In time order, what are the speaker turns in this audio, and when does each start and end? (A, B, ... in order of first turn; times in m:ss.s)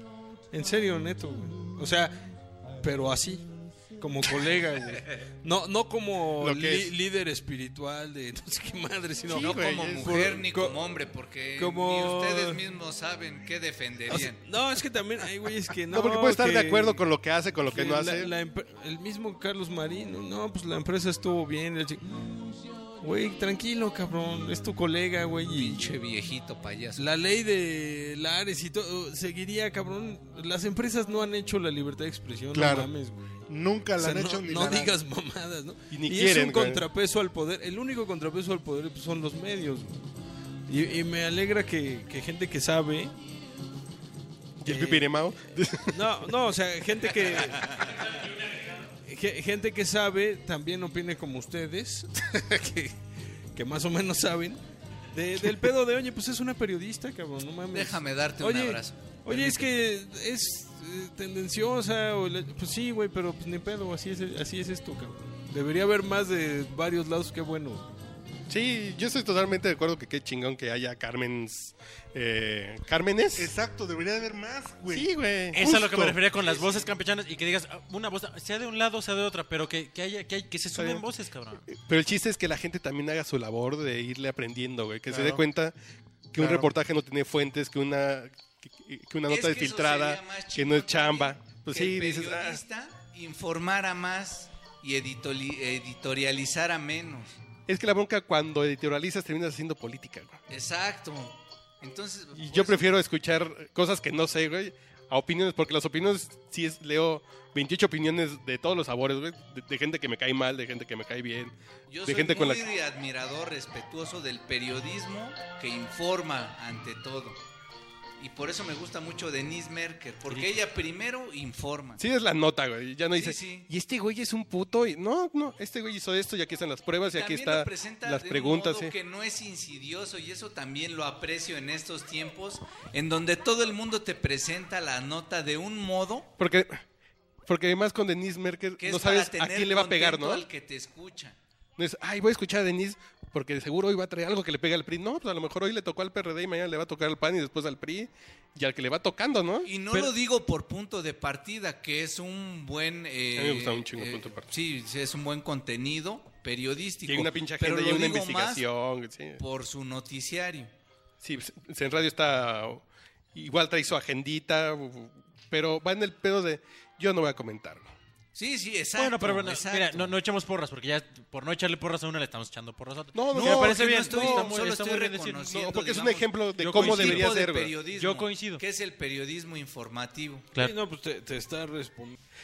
0:00.5-0:10.8 A
0:06.4-0:06.9 B
0:09.3-0:10.2 B
0:09.3-0:14.4 C
0:11.6-0:12.6 A
0:14.1-0:17.0 A
0:15.9-0:18.3 B
0:17.6-0:25.8 A
0:25.5-0:27.1 C
0:27.0-0:33.5 A
0:32.5-0:32.9 D
0:33.5-0:34.9 D
0:34.0-0:40.0 A
0:35.9-0:36.8 B
0:40.7-0:43.2 A
0:44.6-0:46.3 B
0:44.6-0:45.2 A
0:45.9-0:47.7 A
0:47.7-0:48.9 E
0:49.0-0:53.0 A
0:53.5-0:54.6 A
0:55.1-1:07.9 A
0:57.7-0:59.6 C
1:08.5-1:13.5 B
1:13.4-1:16.2 D
1:14.9-1:15.6 B
1:15.5-1:21.7 E
1:20.8-1:21.0 B
1:21.7-1:25.8 B
1:25.1-1:25.4 D
1:26.3-1:32.6 B
1:26.4-1:26.7 D
1:29.3-1:37.4 C
1:37.7-1:40.4 B
1:40.5-1:42.9 C
1:42.3-1:51.5 B
1:51.9-1:57.4 C
1:52.1-1:52.6 B
1:58.2-2:02.0 C
2:02.0-2:08.9 B
2:03.1-2:03.7 C
2:07.1-2:16.3 C
2:16.4-2:16.8 B
2:17.5-2:20.4 B
2:18.8-2:21.4 C
2:21.8-2:30.1 B
2:29.6-2:38.7 C
2:33.4-2:34.5 B
2:37.1-2:39.4 B
2:39.4-2:40.7 C
2:41.2-2:47.9 B
2:48.3-2:50.1 C
2:49.0-2:55.5 E
2:53.1-2:54.5 B
2:53.3-3:00.5 C
2:55.4-2:57.7 B
2:56.6-2:57.3 E
2:58.0-2:58.6 E
3:00.6-3:02.2 A